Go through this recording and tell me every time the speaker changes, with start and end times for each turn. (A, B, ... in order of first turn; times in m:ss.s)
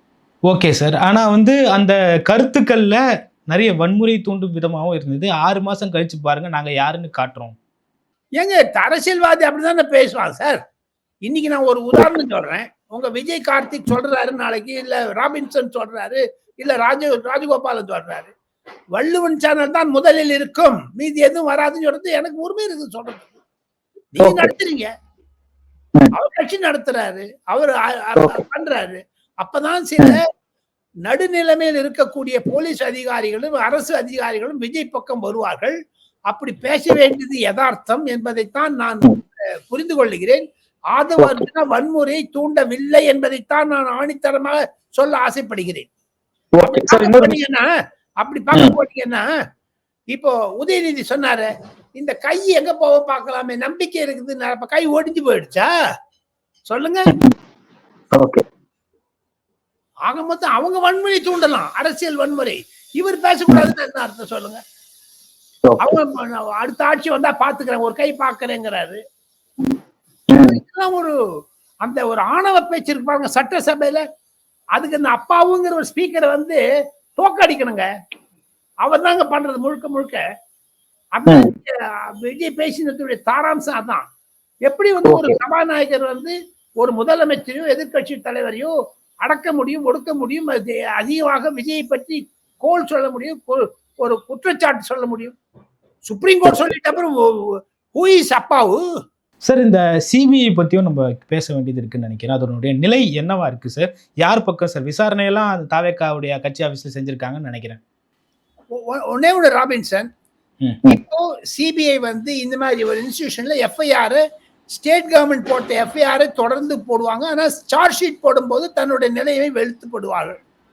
0:00.5-0:07.6 A
0:08.4-0:10.6 B
0:11.3-0:18.3 B
0:18.9-0:23.3 B
0:24.1-0:24.9 B
0:24.2-0:24.5 C
0:26.1-0:30.2 B
0:31.0-0:35.7 B
0:36.3-0:45.9 B
0:41.2-0:41.4 C
0:46.6-0:47.4 C
0:46.6-0:49.2 B
0:50.1-0:55.7 B
0:56.7-0:57.2 B
0:57.1-0:57.3 C
0:58.1-0:58.4 C
1:00.1-1:04.6 B
1:05.6-1:05.9 C
1:05.8-1:09.0 B
1:10.3-1:10.6 C
1:10.4-1:11.1 B
1:11.8-1:14.0 B
1:14.7-1:16.6 B
1:17.2-1:17.8 B
1:18.8-1:20.2 B
1:21.1-1:24.0 B
1:24.6-1:28.7 B
1:25.0-1:25.4 C
1:29.2-1:35.4 B
1:36.1-1:38.8 B
1:39.4-1:47.8 A
1:48.7-1:50.1 B
1:50.9-1:54.2 B
1:54.7-2:00.3 B